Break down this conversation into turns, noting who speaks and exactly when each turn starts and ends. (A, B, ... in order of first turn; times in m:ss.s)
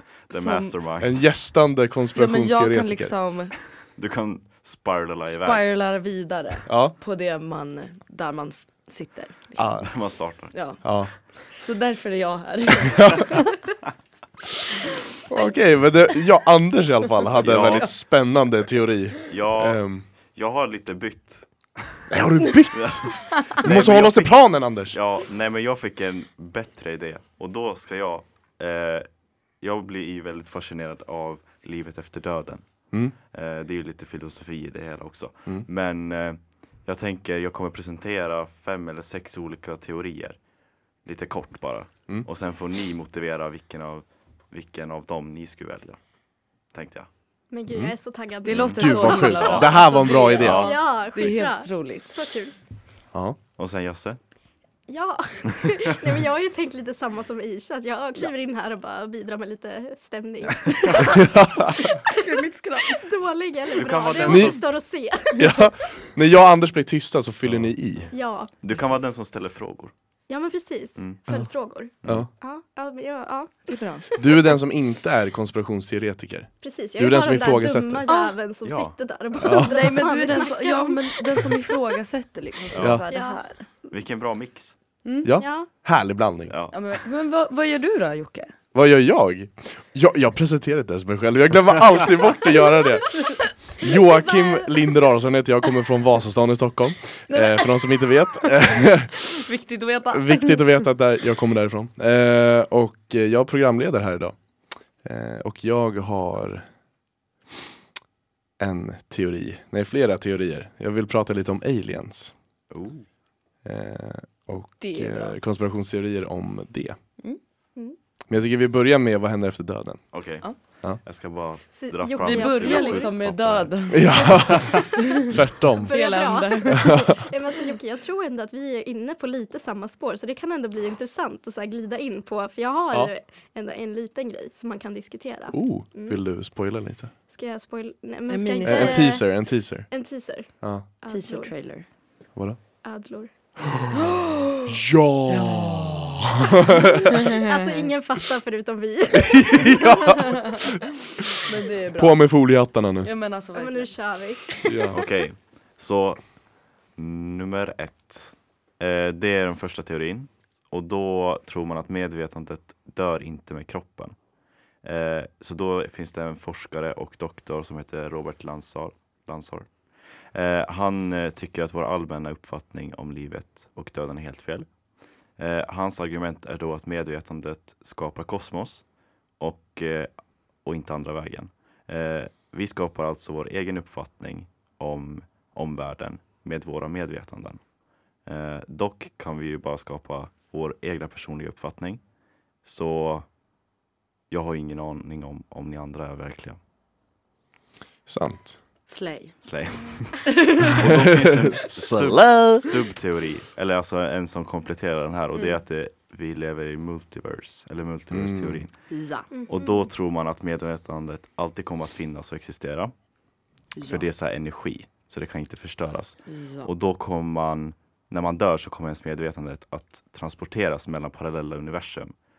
0:00.3-0:01.2 A
0:00.3-0:00.7 B
0:01.0-0:03.1 C
0:02.1-0:03.5 B
0:03.8-0:05.6 A
0:05.3-0:09.7 B
0:06.7-0:06.9 C
0:09.6-0:09.9 C
0:09.8-0:10.6 A
0:10.5-0:13.6 B
0:10.8-0:11.1 C
0:15.3-0:20.0 C
0:17.4-0:18.0 A
0:19.3-0:22.2 A
0:22.1-0:25.0 C
0:22.7-0:29.1 A
0:29.6-0:40.4 A
0:41.0-0:46.0 A
0:46.7-0:47.1 A
0:47.5-0:52.5 D
0:48.4-0:52.2 B
0:48.8-0:50.7 C
0:50.4-0:50.7 A
0:53.1-0:53.4 C
0:53.6-0:54.2 A
0:54.9-1:02.2 D
0:55.6-0:55.9 A
1:01.2-1:01.7 C
1:02.0-1:03.0 B
1:02.8-1:05.6 D
1:03.7-1:04.7 A
1:04.3-1:04.6 C
1:05.4-1:08.1 C
1:07.4-1:09.9 A
1:08.1-1:08.5 D
1:10.3-1:14.2 D
1:12.0-1:12.3 C
1:13.7-1:14.1 B
1:14.2-1:18.1 C
1:16.6-1:21.7 D
1:18.6-1:19.0 A
1:19.4-1:19.8 C
1:19.5-1:23.7 B
1:22.7-1:23.0 A
1:22.8-1:23.0 C
1:23.1-1:23.4 D
1:23.9-1:24.8 A
1:25.0-1:25.3 B
1:25.2-1:26.6 C
1:25.4-1:25.7 D
1:26.5-1:26.8 A
1:26.7-1:28.5 B
1:28.7-1:39.3 C
1:33.9-1:35.0 D
1:37.3-1:40.6 B
1:40.1-1:44.4 C
1:45.0-1:46.7 C
1:48.6-1:52.3 C
1:52.7-1:53.1 A
1:53.6-1:57.0 C
1:54.8-1:55.4 B
1:58.3-2:00.1 C
2:00.1-2:04.9 A
2:01.8-2:03.1 D
2:02.2-2:05.3 B
2:03.9-2:06.2 C
2:04.2-2:04.8 D
2:05.8-2:16.2 D
2:05.9-2:07.1 B
2:15.5-2:17.1 C
2:17.3-2:21.5 D
2:18.3-2:19.2 B
2:18.6-2:19.9 C
2:20.6-2:20.9 C
2:21.1-2:21.9 B
2:22.8-2:23.3 D
2:23.9-2:26.3 B
2:24.7-2:27.1 C
2:26.8-2:30.4 D
2:27.1-2:27.9 B
2:29.2-2:30.8 C
2:31.4-2:32.3 B
2:31.9-2:33.1 C
2:33.0-2:34.0 B
2:33.6-2:34.9 D
2:34.6-2:35.0 C
2:34.9-2:36.2 A
2:37.0-2:44.2 A
2:44.8-2:54.8 A
2:55.4-3:07.7 A
3:08.2-3:12.0 A
3:12.6-3:13.3 A
3:14.3-3:16.6 A
3:18.1-3:18.6 C
3:18.9-3:19.4 B
3:19.4-3:28.8 A
3:20.2-3:20.9 B
3:20.8-3:22.7 C
3:25.3-3:25.6 B
3:28.1-3:28.7 C
3:28.9-3:29.3 B
3:29.3-3:29.8 D
3:29.5-3:32.9 A
3:33.8-3:34.0 B
3:33.8-3:42.1 A
3:36.3-3:36.7 B